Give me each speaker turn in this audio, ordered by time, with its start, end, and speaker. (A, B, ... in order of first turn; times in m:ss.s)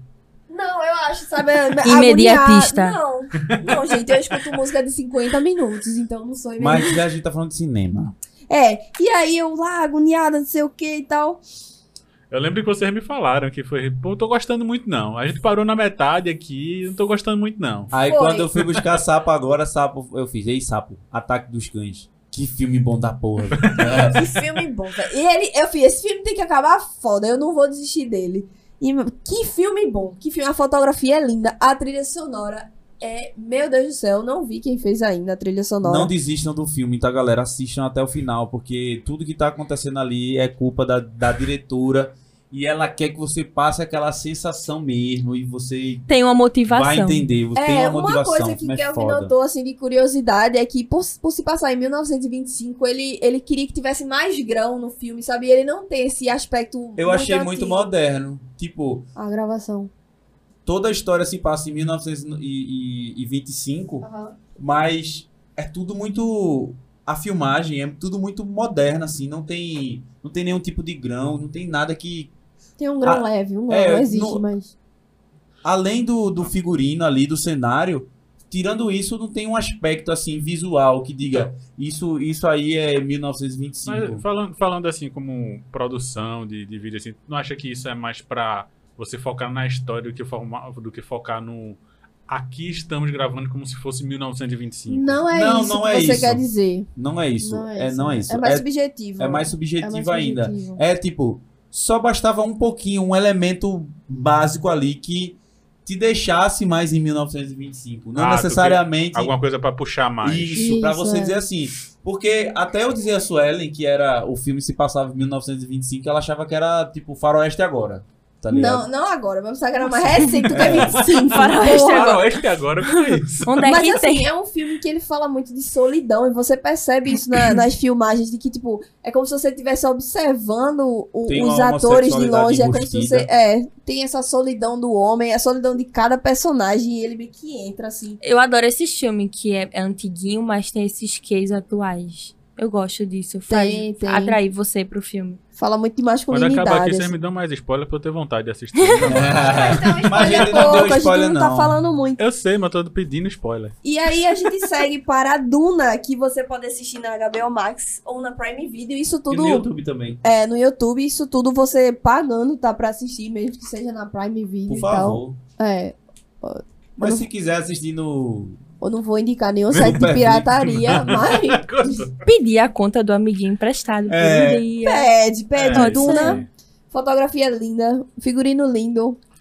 0:00.5-0:07.0 A
0:01.8-0:03.0 B
0:03.4-0:04.4 C
0:06.6-0:08.1 D
0:08.5-0:11.4 A
0:12.3-0:17.9 C
0:17.9-0:24.3 D
0:18.1-0:18.5 A
0:23.5-0:24.0 C
0:23.9-0:36.1 A
0:35.8-0:46.1 D
0:46.1-0:47.3 B
0:46.7-0:49.3 D
0:47.6-0:57.9 A
0:57.0-0:59.1 D
0:59.2-0:59.9 E
1:00.7-1:12.3 D
1:04.0-1:04.4 E
1:12.8-1:14.8 E
1:13.0-1:14.5 D
1:15.6-1:24.2 D
1:23.9-1:35.2 C
1:34.9-1:36.2 E
1:35.3-1:38.7 D
1:35.4-1:36.9 A
1:37.4-1:38.3 E
1:38.3-1:39.5 A
1:39.2-1:49.3 D
1:39.8-1:40.8 E
1:48.2-1:50.7 C
1:50.2-1:58.9 D
1:50.5-1:51.4 E
1:58.5-2:02.2 A
2:00.5-2:01.0 D
2:00.6-2:03.7 C
2:01.2-2:04.3 B
2:03.6-2:18.2 A
2:11.3-2:13.3 D
2:18.2-2:25.4 B
2:23.5-2:24.4 A
2:25.6-2:27.2 A
2:26.3-2:29.4 C
2:29.0-2:31.8 D
2:29.1-2:32.2 A
2:29.6-2:30.5 E
2:32.2-2:33.8 C
2:33.8-2:39.7 A
2:39.3-2:40.2 D
2:40.2-2:45.0 A
2:44.4-2:47.2 E
2:44.7-2:45.4 D
2:47.0-2:48.6 D
2:48.8-2:52.1 A
2:49.7-2:51.1 D
2:50.6-2:52.2 C
2:52.2-2:55.1 B
2:54.1-2:54.6 D
2:54.8-2:59.2 A
2:55.6-2:56.5 C
2:55.7-2:56.4 E